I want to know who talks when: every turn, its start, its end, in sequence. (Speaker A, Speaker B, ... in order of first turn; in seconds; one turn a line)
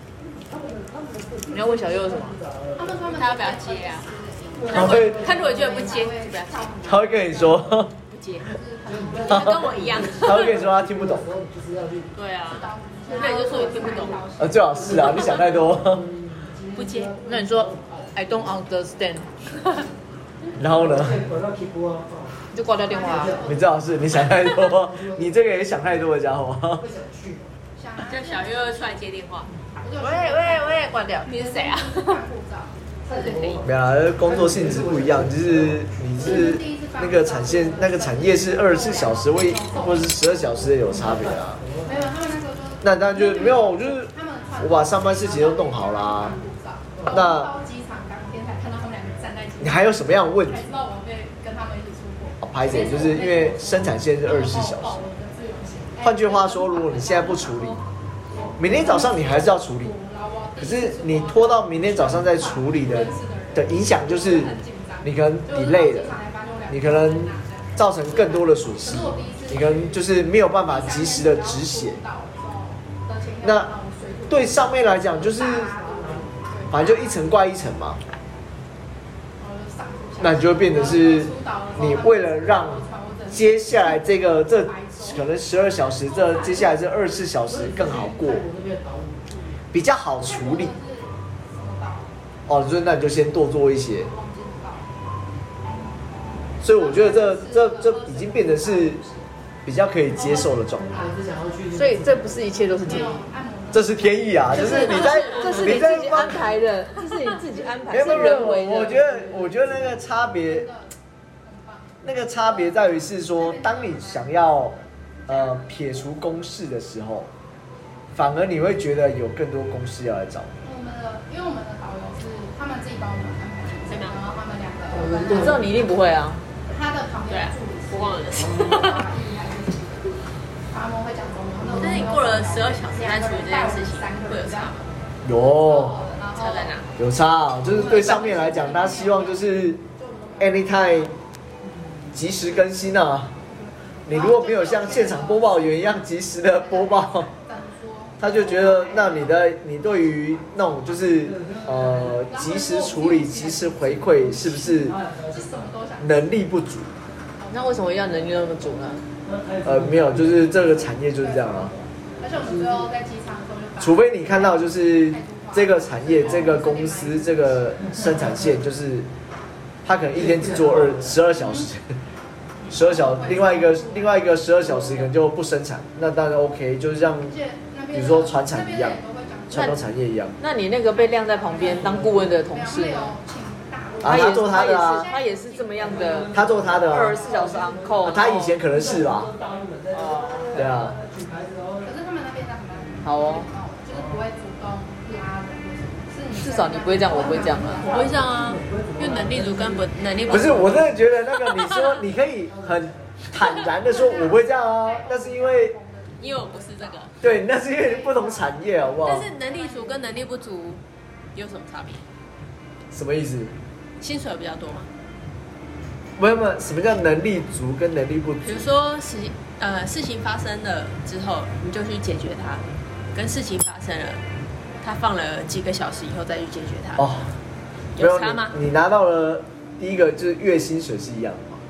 Speaker A: 0.2-3.1
Speaker B: 1.5-2.4
Speaker C: 2.8-7.8
Speaker D: 3.1-4.1
Speaker A: 4.5-5.9
Speaker D: 4.6-6.9
Speaker E: 4.7-5.2
Speaker E: 6.8-7.9
Speaker D: 8.1-8.5
Speaker C: 8.4-10.1
Speaker A: 8.8-12.2
Speaker D: 9.2-10.6
Speaker E: 10.2-11.3
Speaker D: 12.1-14.2
Speaker C: 12.5-15.3
Speaker A: 13.1-18.6
Speaker E: 14.4-16.0
Speaker D: 16.7-17.1
Speaker B: 17.2-19.3
Speaker E: 20.6-21.2
Speaker A: 20.6-22.4
Speaker B: 22.5-23.4
Speaker C: 22.9-24.3
Speaker A: 22.9-23.6
Speaker E: 23.5-26.8
Speaker A: 24.6-25.3
Speaker A: 26.8-27.5
Speaker C: 27.8-28.7
Speaker D: 28.0-29.5
Speaker C: 29.8-32.9
Speaker B: 30.0-31.3
Speaker D: 31.2-32.2
Speaker A: 33.0-36.4
Speaker D: 33.1-33.6
Speaker E: 33.6-41.6
Speaker C: 36.2-40.4
Speaker A: 40.6-42.1
Speaker C: 41.8-57.9
Speaker E: 42.8-46.4
Speaker A: 46.9-47.2
Speaker E: 47.1-47.5
Speaker E: 49.6-50.7
Speaker E: 52.4-55.0
Speaker E: 56.0-57.8
Speaker A: 58.3-58.6
Speaker C: 58.4-70.0
Speaker E: 58.6-59.9
Speaker E: 60.6-66.1
Speaker E: 66.7-72.0
Speaker C: 70.5-77.0
Speaker E: 73.4-73.7
Speaker E: 74.3-75.7
Speaker A: 75.6-76.4
Speaker E: 76.7-78.0
Speaker C: 79.4-85.3
Speaker E: 80.2-88.4
Speaker C: 86.0-86.8
Speaker A: 87.5-89.6
Speaker E: 89.7-90.7
Speaker C: 90.2-92.1
Speaker E: 92.5-94.1
Speaker C: 93.9-94.9
Speaker C: 95.6-99.3
Speaker E: 96.6-99.0
Speaker E: 99.6-101.0
Speaker C: 100.1-101.3
Speaker A: 100.7-103.2
Speaker B: 101.7-103.2
Speaker C: 102.8-105.5
Speaker E: 103.7-106.6
Speaker D: 104.5-105.7
Speaker B: 104.5-109.0
Speaker C: 107.8-108.5
Speaker E: 107.9-110.7
Speaker A: 108.9-109.9
Speaker C: 110.2-115.9
Speaker E: 112.0-117.3
Speaker E: 118.1-120.5
Speaker C: 120.6-125.7
Speaker D: 123.9-124.2
Speaker A: 124.9-125.7
Speaker B: 125.3-126.4
Speaker C: 126.7-130.1
Speaker D: 127.3-129.1
Speaker A: 128.4-128.7
Speaker C: 130.7-134.7
Speaker A: 131.6-132.1
Speaker D: 131.7-134.9
Speaker E: 135.2-136.1
Speaker C: 135.6-136.8
Speaker D: 136.3-136.9
Speaker E: 137.0-139.8
Speaker C: 137.7-141.1
Speaker E: 140.4-141.1
Speaker A: 141.6-142.2
Speaker E: 142.1-143.3
Speaker C: 143.4-149.5
Speaker E: 144.1-147.3
Speaker E: 148.2-154.9
Speaker A: 151.1-152.3
Speaker C: 152.3-156.5
Speaker A: 154.7-155.7
Speaker E: 156.0-156.9
Speaker C: 157.4-158.4
Speaker B: 157.5-159.0
Speaker A: 159.2-162.9
Speaker E: 159.6-161.7
Speaker C: 161.3-167.8
Speaker E: 163.8-169.1
Speaker E: 169.8-171.9
Speaker A: 170.1-171.1
Speaker C: 171.3-171.7
Speaker C: 172.6-175.1
Speaker E: 172.7-177.3
Speaker C: 177.2-179.8
Speaker E: 177.9-179.0
Speaker E: 179.5-180.4
Speaker B: 180.4-183.2
Speaker C: 180.9-187.7
Speaker A: 181.6-182.3
Speaker E: 184.0-185.1
Speaker B: 184.0-188.6
Speaker A: 185.8-191.9
Speaker E: 186.3-187.2
Speaker E: 188.0-189.3
Speaker B: 189.9-190.8
Speaker E: 190.5-191.0
Speaker C: 191.8-198.1
Speaker B: 193.0-193.5
Speaker A: 193.9-194.2
Speaker B: 196.3-197.9
Speaker A: 197.2-200.9
Speaker D: 197.8-201.9
Speaker E: 200.3-205.8
Speaker A: 202.5-203.2
Speaker C: 203.8-210.2
Speaker D: 206.2-207.1
Speaker E: 207.2-209.3
Speaker D: 209.0-210.8
Speaker D: 211.3-212.0
Speaker E: 212.9-213.6
Speaker D: 214.0-214.9
Speaker E: 216.2-218.7
Speaker D: 218.4-224.2
Speaker D: 224.8-227.1
Speaker E: 227.0-227.3
Speaker D: 227.9-228.5
Speaker E: 228.0-231.6